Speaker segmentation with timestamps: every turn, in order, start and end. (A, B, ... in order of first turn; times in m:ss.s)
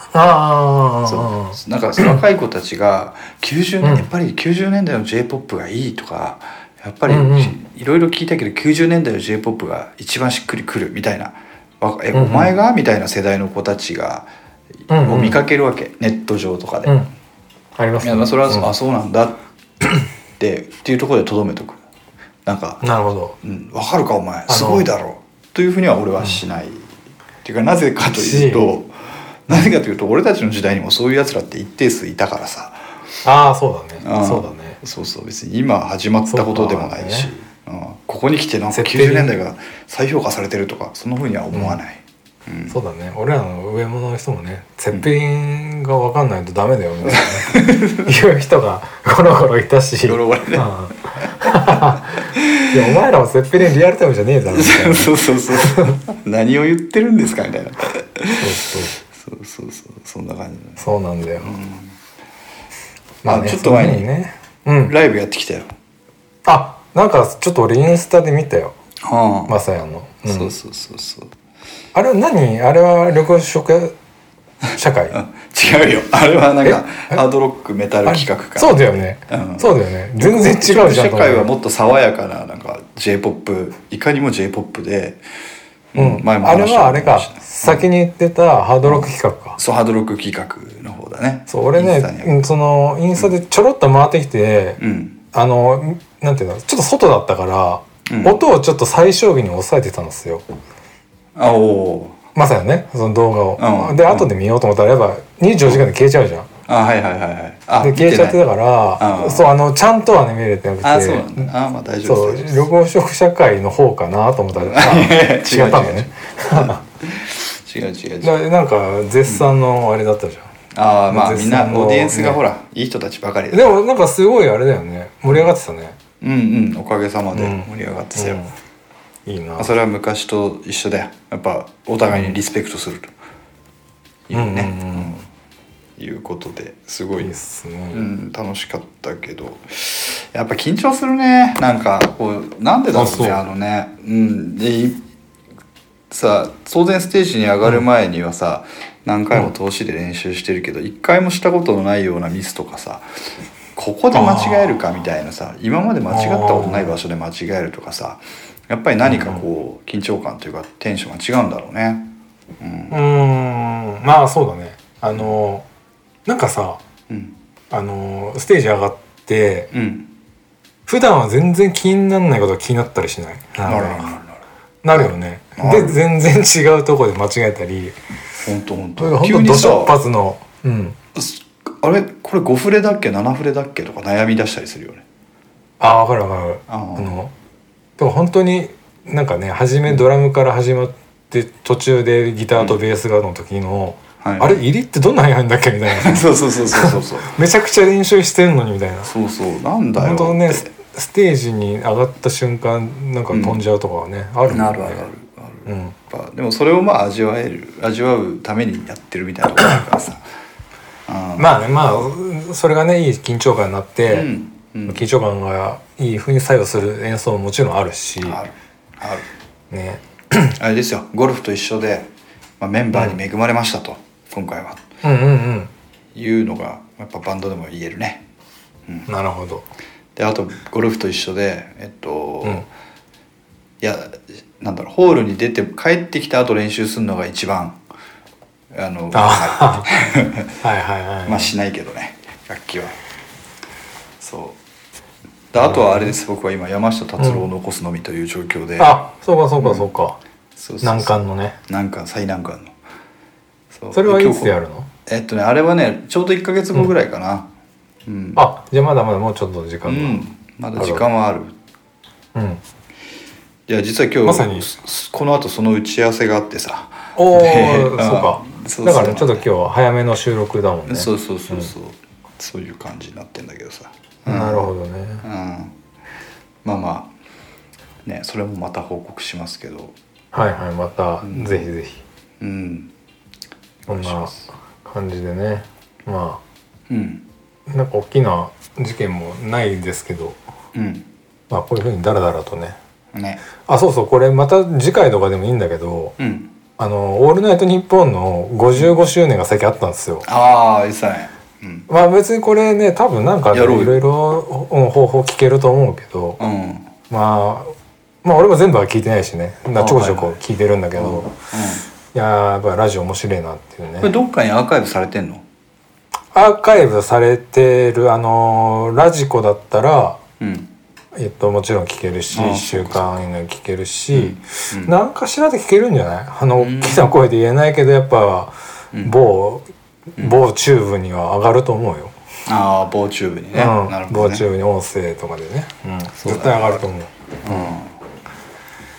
0:00.1-0:02.2 A
0:01.1-0:14.3 B
0:03.8-0:04.1 A
0:07.1-0:07.5 A
0:12.1-0:12.5 A
0:14.9-0:15.4 A
0:15.0-0:17.0 B
0:16.8-0:17.1 A
0:17.8-0:18.7 A
0:18.0-0:19.4 B
0:20.4-0:21.8 B
0:22.4-0:22.8 B
0:22.8-0:23.4 A
0:23.4-0:32.8 B
0:24.5-0:24.8 A
0:28.1-0:28.6 A
0:33.2-0:34.8 A
0:34.0-0:42.7 B
0:36.3-0:37.3 A
0:38.7-0:39.3 A
0:41.5-0:41.8 A
0:42.7-0:56.0 A
0:47.1-0:48.1 B
0:50.0-0:50.7 B
0:52.3-0:52.6 B
0:54.5-0:58.4 B
0:58.4-0:59.0 A
0:59.0-1:00.8 B
1:00.8-1:01.6 A
1:01.4-1:02.0 B
1:03.2-1:04.9 A
1:03.2-1:04.1 B
1:04.8-1:05.7 B
1:06.4-1:08.7 A
1:09.0-1:09.6 B
1:09.5-1:10.5 A
1:10.2-1:11.3 B
1:11.9-1:13.9 A
1:14.7-1:15.2 A
1:15.1-1:19.7 B
1:16.6-1:17.2 A
1:18.0-1:21.5 A
1:20.2-1:25.2 B
1:25.9-1:27.9 B
1:26.0-1:29.6 A
1:28.8-1:32.5 B
1:31.5-1:34.8 A
1:34.8-1:35.2 B
1:35.3-1:40.4 A
1:38.1-1:38.4 B
1:41.4-1:42.2 B
1:42.3-1:46.5 A
1:43.6-1:44.3 B
1:46.7-1:48.4 B
1:47.8-1:51.5 A
1:49.0-1:49.5 B
1:50.8-1:52.7 B
1:52.0-1:56.8 A
1:54.5-1:58.3 B
1:58.2-2:00.5 A
2:00.7-2:03.8 B
2:01.1-2:02.4 A
2:03.5-2:06.0 A
2:06.2-2:08.4 B
2:07.3-2:08.5 A
2:09.2-2:09.7 A
2:09.6-2:13.1 B
2:14.3-2:15.2 B
2:14.3-2:15.2 A
2:16.0-2:17.3 B
2:17.2-2:18.0 A
2:17.9-2:25.0 B
2:22.9-2:23.4 A
2:26.1-2:33.1 B
2:33.7-2:42.9 B
2:34.1-2:34.8 A
2:36.1-2:37.0 A
2:39.0-2:39.4 A
2:42.9-2:45.6 A
2:46.2-2:46.8 A
2:47.1-2:47.3 B
2:47.7-2:49.7 A
2:49.7-2:50.1 B
2:50.9-2:54.2 A
2:53.6-2:54.4 B
2:54.8-2:58.0 A
2:54.9-2:56.0 B
2:58.4-3:00.0 B
2:59.0-3:01.0 A
3:01.2-3:05.0 B
3:05.8-3:07.3 A
3:06.7-3:07.2 B
3:08.0-3:19.1 A
3:14.2-3:14.6 B
3:16.0-3:17.3 B
3:19.0-3:20.6 B
3:20.0-3:25.1 A
3:23.3-3:23.6 B
3:24.5-3:30.2 B
3:25.6-3:25.9 A
3:31.1-3:31.7 B
3:31.4-3:34.3 A
3:34.1-3:35.0 B
3:34.9-3:38.4 A
3:38.2-3:39.3 B
3:39.7-3:40.6 A
3:40.6-3:42.1 B
3:42.6-3:44.8 B
3:45.0-3:45.7 A
3:46.1-3:48.2 B
3:49.1-3:49.6 A
3:50.2-3:52.6 B
3:53.8-3:57.8 B
3:58.7-4:00.5 B
3:59.1-3:59.9 A
4:00.6-4:01.5 A
4:01.2-4:03.0 B
4:04.2-4:04.6 B
4:05.5-4:09.0 B
4:05.6-4:06.1 A
4:07.2-4:07.4 A
4:08.8-4:10.2 A
4:09.6-4:09.8 B
4:10.6-4:12.8 B
4:10.8-4:11.6 A
4:13.7-4:14.5 B
4:13.9-4:14.9 A
4:15.0-4:17.5 B
4:18.0-4:18.4 B
4:18.4-4:20.2 A
4:19.8-4:21.5 B
4:20.8-4:21.0 A
4:22.3-4:22.6 A
4:23.7-4:29.4 B
4:24.2-4:24.7 A
4:27.2-4:31.7 A
4:30.9-4:34.7 B
4:34.2-4:35.2 A
4:35.2-4:35.7 B
4:36.6-4:37.1 B
4:38.0-4:40.0 B
4:40.3-4:42.0 A
4:41.2-4:41.7 B
4:42.4-4:42.9 B
4:43.9-4:44.5 B
4:43.9-4:44.3 A
4:44.8-4:46.4 A
4:46.9-4:47.2 B
4:47.7-4:50.4 A
4:50.7-4:51.1 B
4:51.5-4:52.8 A
4:53.1-4:53.4 B
4:53.7-4:56.2 A
4:56.2-4:56.5 B
4:56.8-5:00.3 A
5:00.2-5:01.8 B
5:01.9-5:06.4 A
5:03.5-5:04.0 B
5:06.4-5:06.9 B
5:07.1-5:11.3 A
5:09.8-5:10.4 B
5:10.9-5:11.8 B
5:12.1-5:14.1 A
5:14.0-5:15.4 B
5:16.3-5:20.2 A
5:20.4-5:20.7 B
5:21.1-5:32.1 A
5:22.3-5:23.2 B
5:24.1-5:24.9 B
5:26.6-5:27.1 B
5:32.5-5:34.4 B
5:33.5-5:37.7 A
5:36.2-5:36.8 B
5:37.4-5:37.9 B